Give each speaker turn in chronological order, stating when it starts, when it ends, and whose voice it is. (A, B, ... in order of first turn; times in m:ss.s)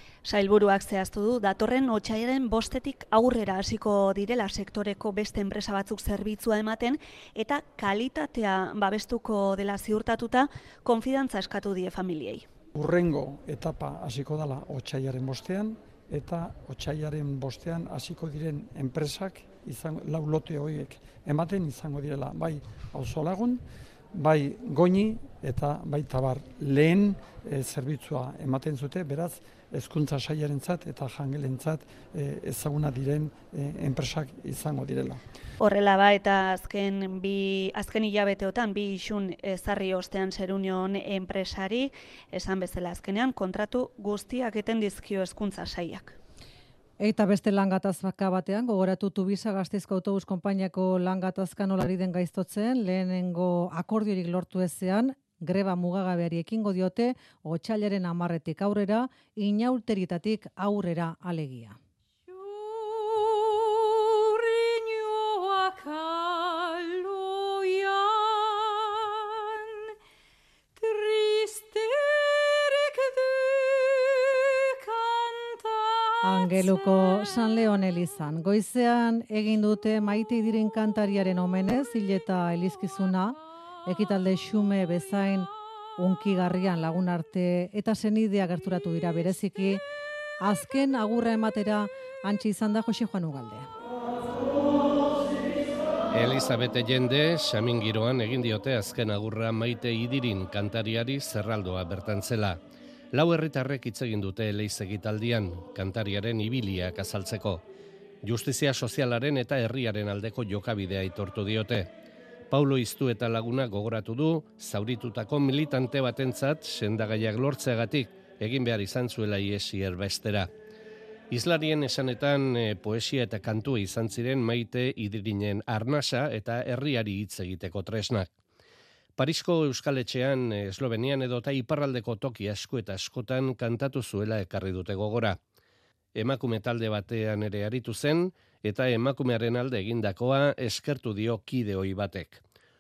0:00.2-0:12.5 A
0:12.8-0:23.6 B
0:24.1-0:35.2 B
0:35.6-0:46.1 A
0:47.0-1:01.8 C
1:02.4-1:03.5 D
1:04.4-1:08.8 D
1:10.8-1:14.1 D
1:14.9-1:16.2 D
1:16.2-1:29.8 C
1:30.4-1:33.7 C
1:36.1-1:42.6 D
1:43.1-1:47.6 D
1:48.2-1:51.9 D
1:52.5-2:00.5 D
2:01.3-2:08.3 D
2:09.2-2:15.4 D
2:16.2-2:22.4 D